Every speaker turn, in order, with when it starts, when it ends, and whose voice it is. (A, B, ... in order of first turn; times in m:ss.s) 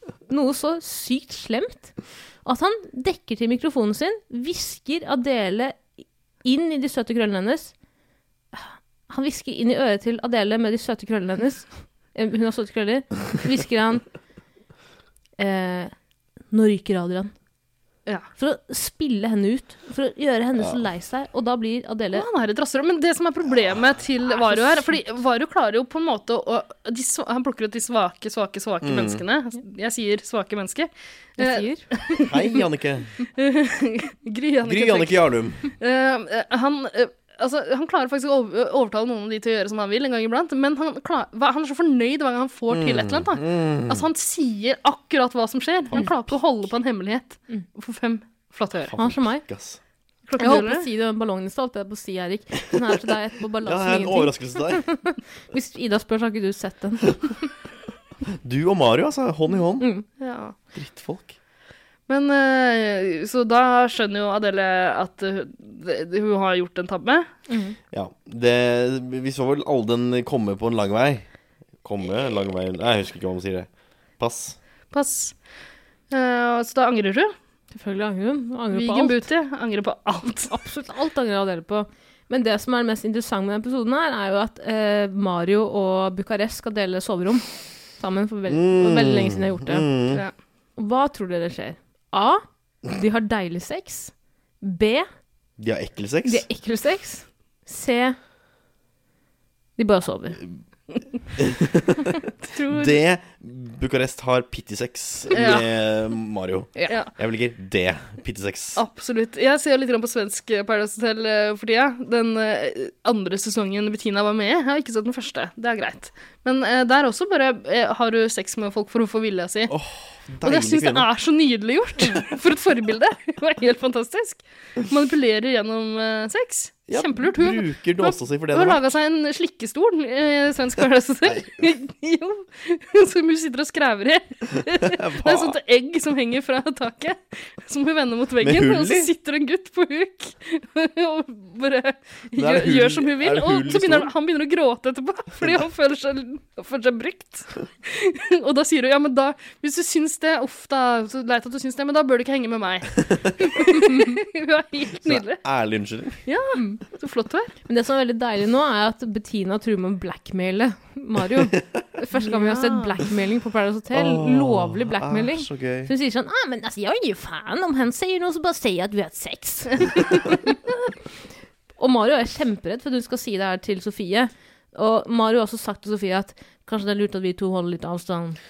0:00.3-0:05.9 A
0:06.4-0:07.7 A
0:08.5-0:14.0 A
0:15.4-0:15.9 A
0:16.5-0:17.3 A
0:18.4-0:22.3 A
0:22.1-0:32.6 B
0:24.4-0:25.0 A
0:28.8-0:29.2 C
0:31.4-0:31.9 A
0:32.2-0:33.1 C
0:33.4-0:48.9 B
0:34.6-0:35.7 C
0:42.7-0:44.1 C
0:45.9-0:46.3 C
0:48.9-0:49.8 C
0:49.0-0:49.4 A
0:50.3-0:50.9 B
0:50.4-0:57.5 A
0:53.6-0:54.9 C
0:58.4-0:59.9 C
0:59.8-1:00.0 A
1:00.2-1:00.6 B
1:00.7-1:01.4 C
1:02.1-1:07.3 B
1:07.5-1:07.8 A
1:07.9-1:11.3 C
1:11.8-1:14.6 C
1:14.9-1:15.4 B
1:16.1-1:17.3 B
1:17.7-1:19.2 A
1:18.7-1:20.5 B
1:20.5-1:29.9 A
1:28.5-1:30.2 C
1:30.8-1:35.1 A
1:35.6-1:36.4 C
1:36.2-1:38.2 A
1:39.8-1:40.4 A
1:41.4-1:48.8 C
1:42.4-1:43.0 B
1:45.3-1:45.7 B
1:48.8-1:59.7 B
1:59.7-2:01.1 C
2:00.4-2:35.4 B
2:06.9-2:08.9 C
2:14.8-2:15.6 C
2:18.4-2:19.1 C
2:22.4-2:24.1 C
2:33.0-2:33.3 C
2:35.0-2:36.2 C
2:36.3-2:37.5 B
2:37.7-2:50.6 A
2:42.2-2:43.0 B
2:43.9-2:45.9 C
2:51.8-2:58.4 A